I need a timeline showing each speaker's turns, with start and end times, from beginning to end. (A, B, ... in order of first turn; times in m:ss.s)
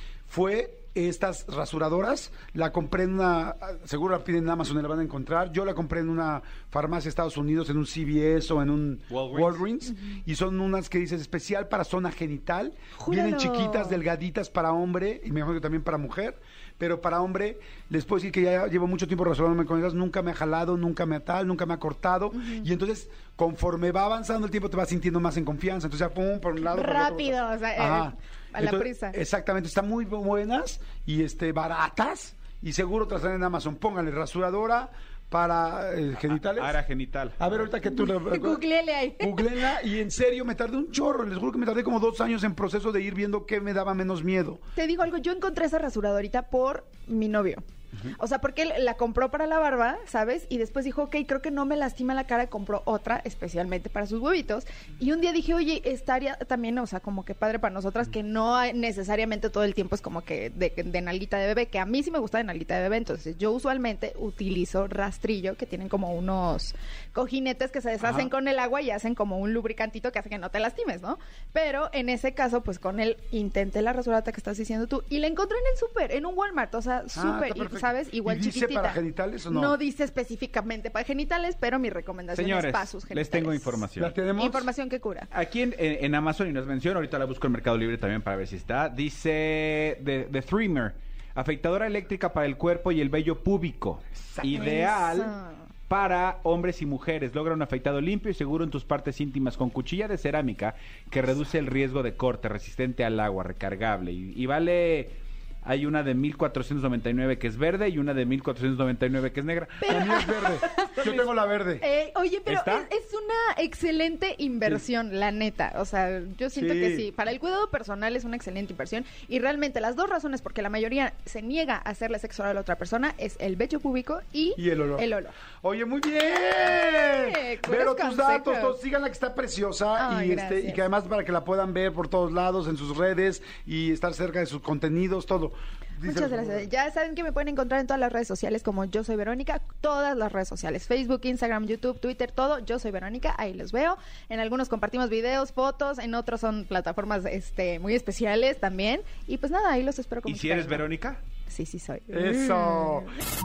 0:00.3-0:36.8 A
0:09.1-0:09.6 B
0:12.9-0:14.0 C
0:22.3-0:22.6 C
0:26.6-0:29.2 C
0:36.3-0:37.7 B
0:37.4-0:38.6 A
0:37.8-0:39.7 C
0:39.2-0:44.6 A
0:44.8-1:23.8 C
1:08.0-1:08.3 B
1:17.1-1:19.8 A
1:22.3-1:24.2 B
1:24.0-1:24.7 A
1:24.3-1:25.3 C
1:25.3-1:35.3 B
1:34.5-1:35.7 C
1:35.9-1:50.3 B
1:49.8-1:51.2 C
1:49.9-1:51.8 A
1:51.0-1:51.2 B
1:51.8-2:05.4 C
1:52.5-1:52.9 B
1:56.5-1:57.1 A
2:04.6-2:05.1 A
2:05.6-2:16.7 A
2:06.9-2:08.8 C
2:10.0-2:10.8 C
2:16.0-2:30.9 C
2:30.2-2:31.2 B
2:31.5-2:33.2 C
2:32.1-2:33.1 A